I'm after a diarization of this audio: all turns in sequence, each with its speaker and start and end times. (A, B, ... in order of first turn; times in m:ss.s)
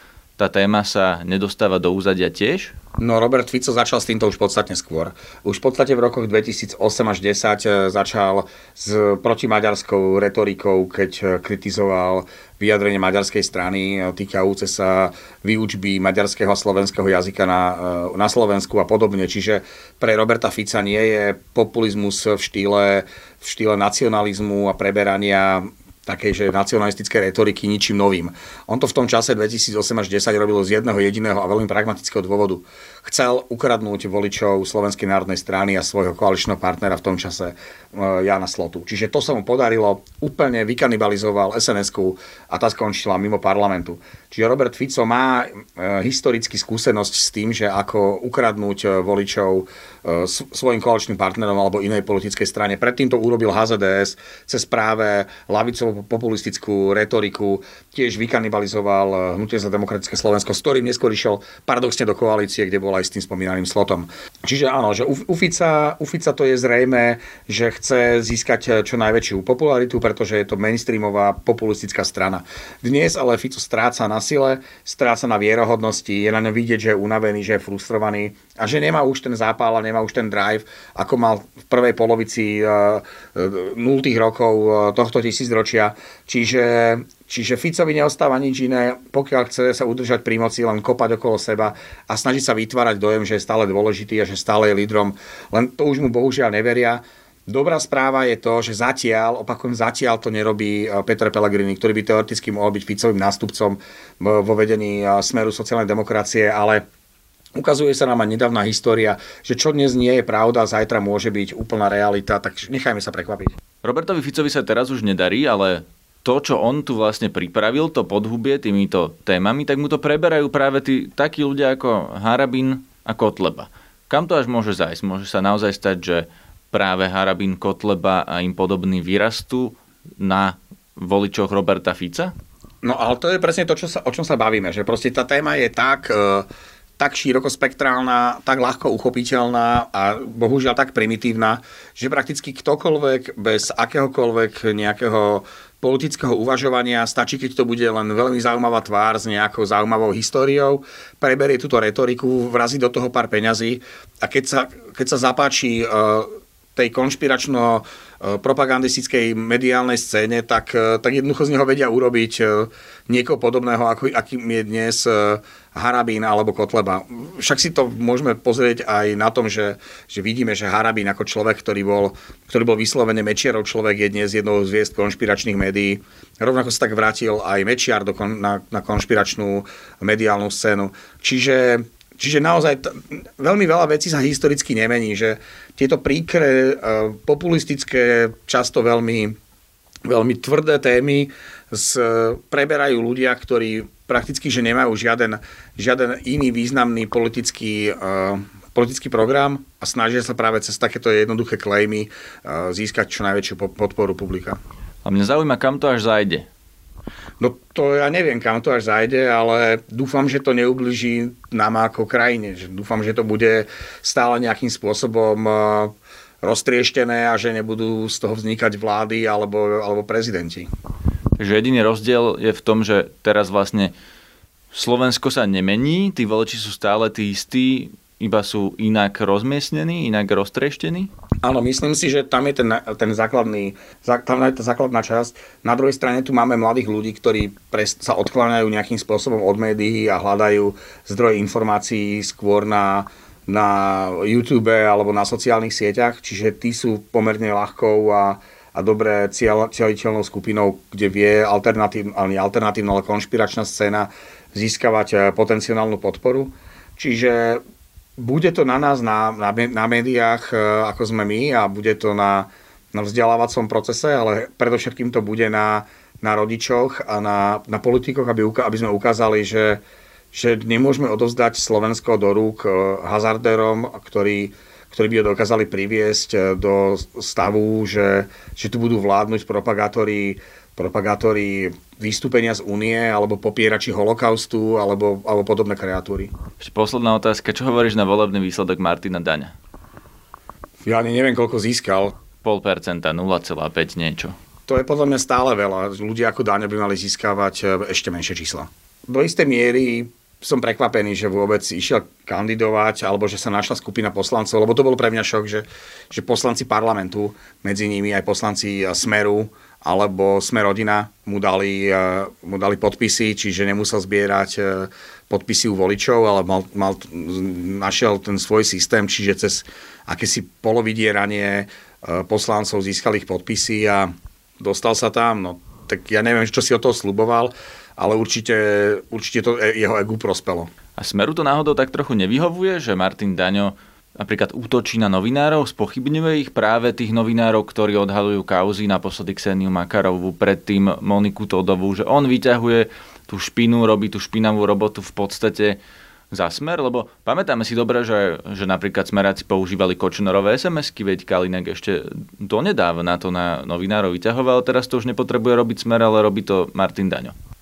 0:00.4-0:02.7 A
0:03.0-1:46.8 B
1:47.5-1:53.5 B
1:53.8-2:12.3 A
2:12.8-2:16.5 B
2:17.0-3:09.3 B
3:10.0-3:24.6 B
3:25.0-3:26.5 A
3:27.4-3:40.7 B
3:41.4-3:43.9 A
3:44.7-3:51.1 A
3:51.4-4:17.6 B
4:18.2-4:29.8 B
4:30.3-4:46.3 B
4:46.6-4:49.5 A
4:50.8-4:52.1 B
4:52.4-4:54.3 A
4:54.7-5:30.7 B
5:31.0-5:45.8 A
5:46.3-5:57.3 A